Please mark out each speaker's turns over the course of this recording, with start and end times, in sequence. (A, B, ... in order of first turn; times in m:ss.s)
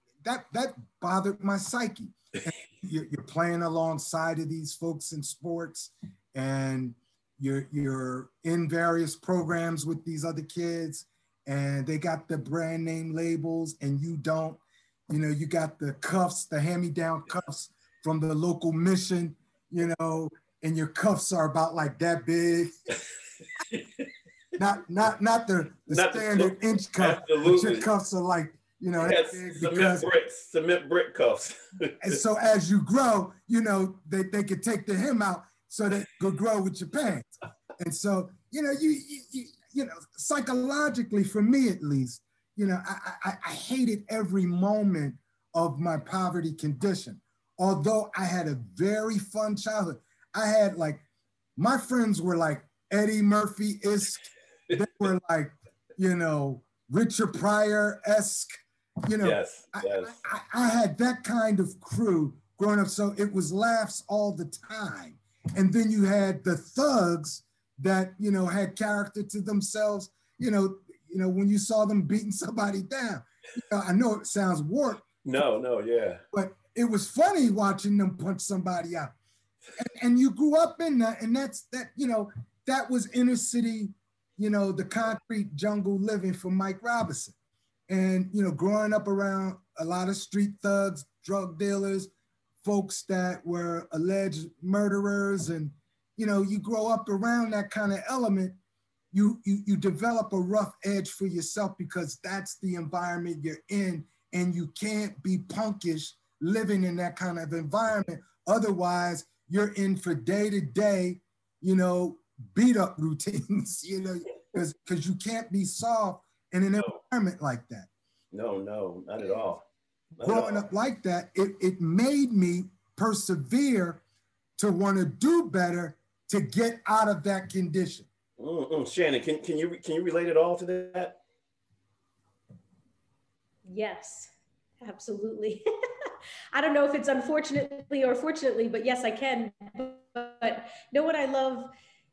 0:00.2-0:22.9 A
0:23.6-0:24.1 B
0:24.6-0:30.1 A
0:25.9-0:27.9 B
0:29.0-0:32.2 B
0:32.0-0:51.0 A
0:51.6-0:58.5 A
0:59.0-1:15.0 A
0:59.2-1:00.2 B
1:15.2-1:16.2 B
1:16.3-1:19.1 A
1:19.8-1:27.3 A
1:27.9-1:32.1 A
1:32.6-1:38.5 A
1:39.1-1:57.9 A
1:58.3-1:59.6 B
2:00.2-2:00.7 B
2:00.2-2:04.0 A
2:04.6-2:08.1 A
2:08.4-2:11.2 B
2:13.7-2:15.6 C
2:16.5-2:21.7 C